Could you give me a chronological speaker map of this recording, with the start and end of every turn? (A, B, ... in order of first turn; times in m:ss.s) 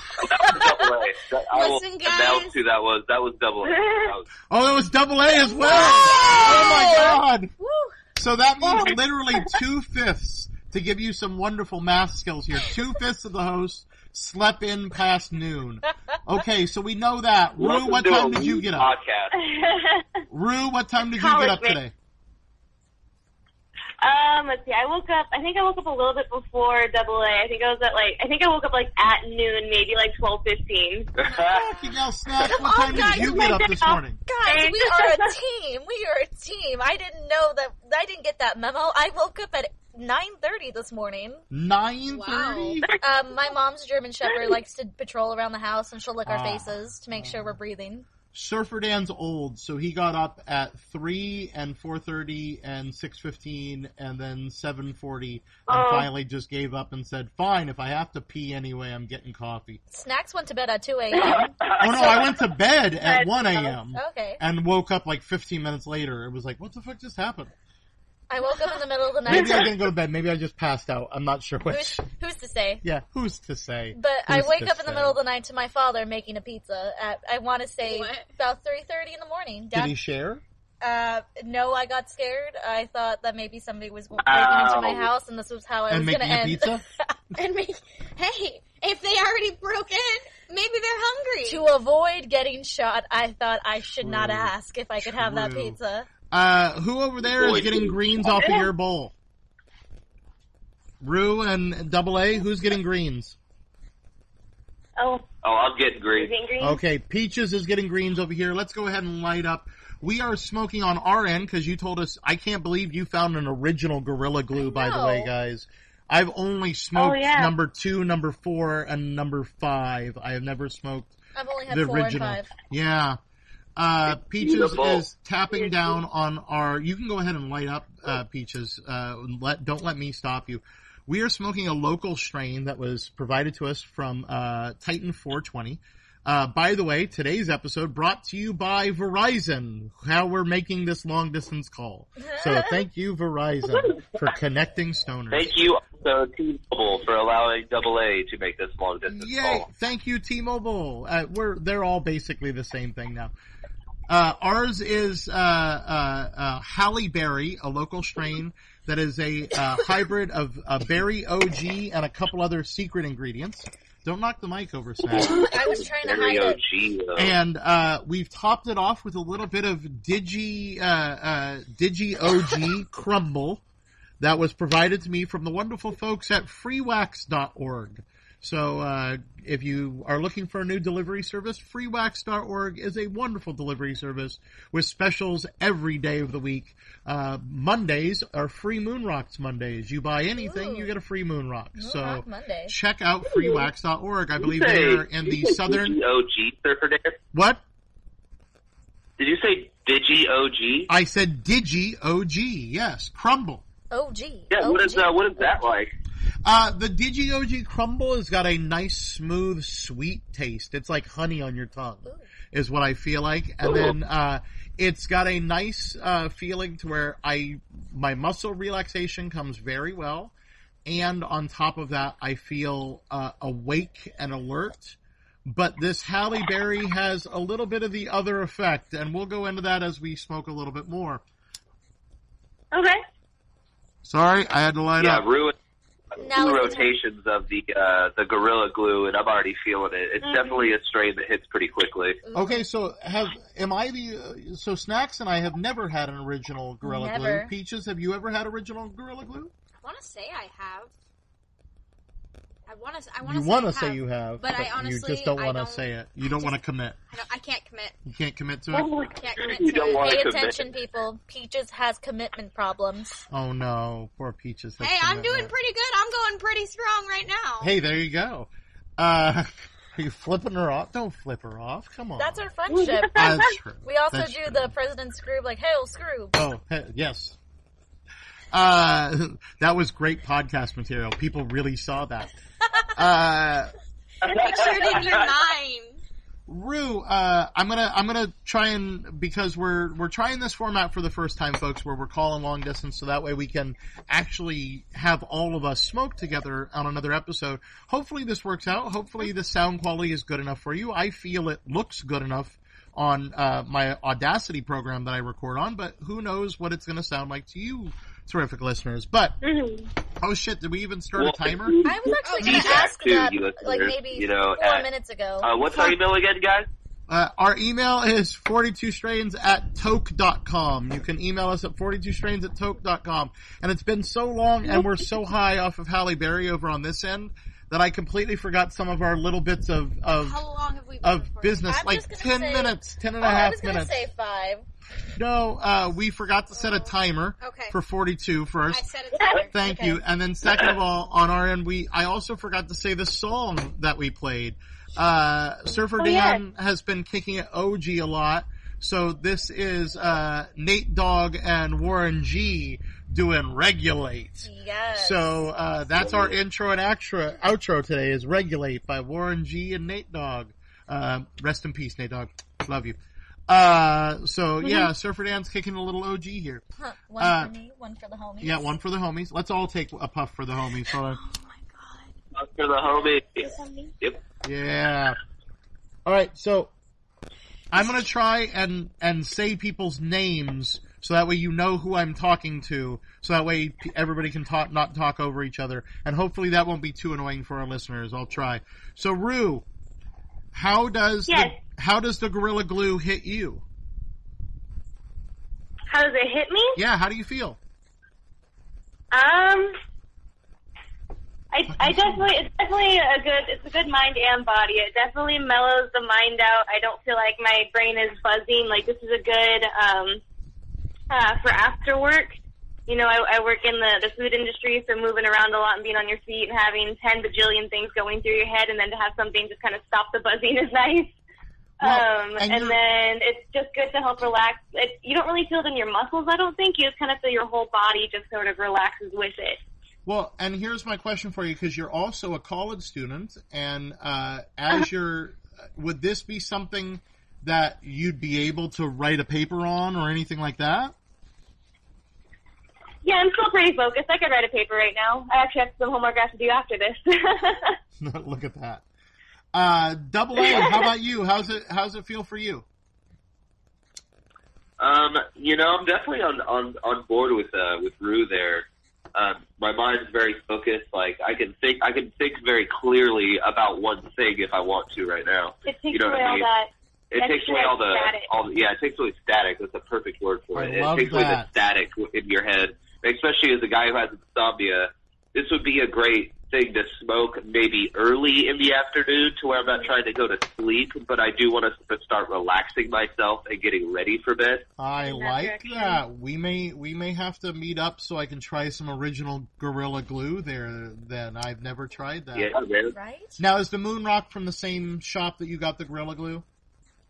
0:00.2-0:04.3 A
0:01.5-0:02.6 B
0:03.7-0:04.1 C
0:04.5-0:07.5 D
0:05.6-0:08.0 E
0:05.7-0:06.9 B
0:08.1-0:18.9 D
0:17.6-0:19.3 A
0:19.3-0:20.2 C
0:20.3-0:21.9 D
0:21.0-0:21.8 C
0:24.0-0:31.1 C
0:31.2-0:31.7 A
0:31.2-0:31.9 B
0:31.5-0:34.2 D
0:32.4-0:33.6 E
0:32.9-0:35.3 C
0:34.2-0:41.4 E
0:41.5-0:42.8 D
0:42.1-0:42.8 B
0:43.0-0:48.1 E
0:46.2-0:47.6 D
0:48.3-0:59.8 D
0:55.7-0:56.1 C
0:59.9-1:01.6 E
1:01.3-1:02.4 C
1:01.8-1:07.5 D
1:03.0-1:03.8 C
1:03.9-1:04.4 E
1:08.3-1:09.7 E
1:09.2-1:12.0 D
1:11.7-1:12.8 E
1:12.8-1:15.2 D
1:13.9-1:20.0 E
1:17.8-1:18.3 B
1:19.7-1:20.4 D
1:20.8-1:27.1 E
1:24.2-1:25.1 A
1:25.9-1:26.8 D
1:27.3-1:31.6 B
1:31.4-1:36.1 E
1:34.0-1:35.8 D
1:36.3-1:39.1 D
1:37.2-1:38.5 A
1:41.0-1:43.4 D
1:45.0-1:45.2 C
1:45.4-1:46.3 A
1:46.1-1:46.8 C
1:46.6-2:01.2 D
1:54.6-1:55.3 E
1:56.9-1:57.5 C
2:01.3-2:02.5 E
2:01.7-2:03.2 D
2:03.8-2:25.5 D
2:04.4-2:05.0 A
2:05.5-2:06.0 C
2:22.2-2:22.8 E
2:25.3-2:29.6 A
2:29.1-2:33.3 D
2:34.1-2:45.5 D
2:45.2-2:46.6 E
2:45.2-2:47.3 A
2:47.2-2:53.6 D
2:54.2-3:16.0 D
3:10.4-3:10.9 E
3:11.8-3:12.8 E
3:14.4-3:17.2 A
3:17.3-3:17.6 D
3:19.2-3:20.9 A
3:20.9-3:23.6 D
3:23.9-3:25.5 E
3:24.5-3:25.9 A
3:26.4-3:40.3 D
3:33.6-3:33.9 A
3:40.8-3:51.2 D
3:52.7-3:53.0 C
3:54.0-3:55.2 D
3:55.0-3:55.5 A
3:56.2-3:56.9 E
3:56.2-4:02.2 A
4:00.2-4:00.7 C
4:02.2-4:02.6 E
4:02.3-4:09.5 D
4:06.8-4:07.5 E
4:09.8-4:10.9 B
4:12.7-4:16.6 B
4:13.2-4:17.0 D
4:17.1-4:18.0 B
4:18.0-4:18.9 D
4:18.7-4:19.1 C
4:19.2-4:20.2 B
4:19.4-4:20.6 A
4:20.0-4:23.2 E
4:23.3-4:25.5 D
4:24.8-4:27.7 B
4:27.6-4:32.4 D
4:32.2-4:36.4 E
4:32.7-4:33.5 C
4:33.1-4:34.7 D
4:36.3-4:37.4 D
4:38.5-4:42.3 D
4:42.9-4:43.7 D
4:44.2-4:45.3 A
4:44.2-4:46.0 B
4:46.5-5:09.4 D
5:09.4-5:09.9 C
5:10.2-5:11.8 D
5:11.2-5:14.9 A
5:11.8-5:15.5 E
5:12.2-5:12.9 B
5:15.4-5:16.7 A
5:17.1-5:30.4 D
5:30.1-5:31.8 B
5:31.0-5:34.0 D
5:31.7-5:34.6 E
5:35.2-5:38.9 D
5:36.6-5:37.8 B
5:38.7-5:39.5 B
5:39.2-5:39.4 C
5:39.4-6:06.6 D
5:39.6-5:40.0 E
5:46.0-5:46.4 C
5:54.4-5:55.4 E
5:56.0-5:56.4 A
6:06.8-6:08.7 E
6:07.2-6:07.5 D
6:08.4-6:11.2 D
6:11.0-6:12.2 B
6:12.3-6:14.2 A
6:13.4-6:13.9 C
6:14.4-6:15.2 D
6:16.0-6:16.7 D
6:17.7-6:29.6 D
6:30.5-6:33.6 D
6:31.3-6:31.6 C
6:35.9-6:36.8 C
6:36.8-6:37.6 D
6:39.1-6:39.8 C
6:41.5-6:50.2 C
6:41.7-6:42.3 D
6:51.1-6:52.4 C
6:52.9-7:01.2 C
7:01.8-7:09.6 C
7:01.8-7:02.8 D
7:10.0-7:20.9 D
7:23.0-7:27.8 C
7:28.0-7:28.8 D
7:29.5-7:32.6 D
7:30.4-7:30.9 C
7:34.8-7:46.5 A
7:45.6-7:48.3 C
7:47.1-8:04.6 A
7:50.5-7:51.6 D
8:04.8-8:12.5 D
8:05.0-8:06.0 C
8:12.3-8:12.9 A
8:12.9-8:13.4 E
8:13.4-8:16.4 D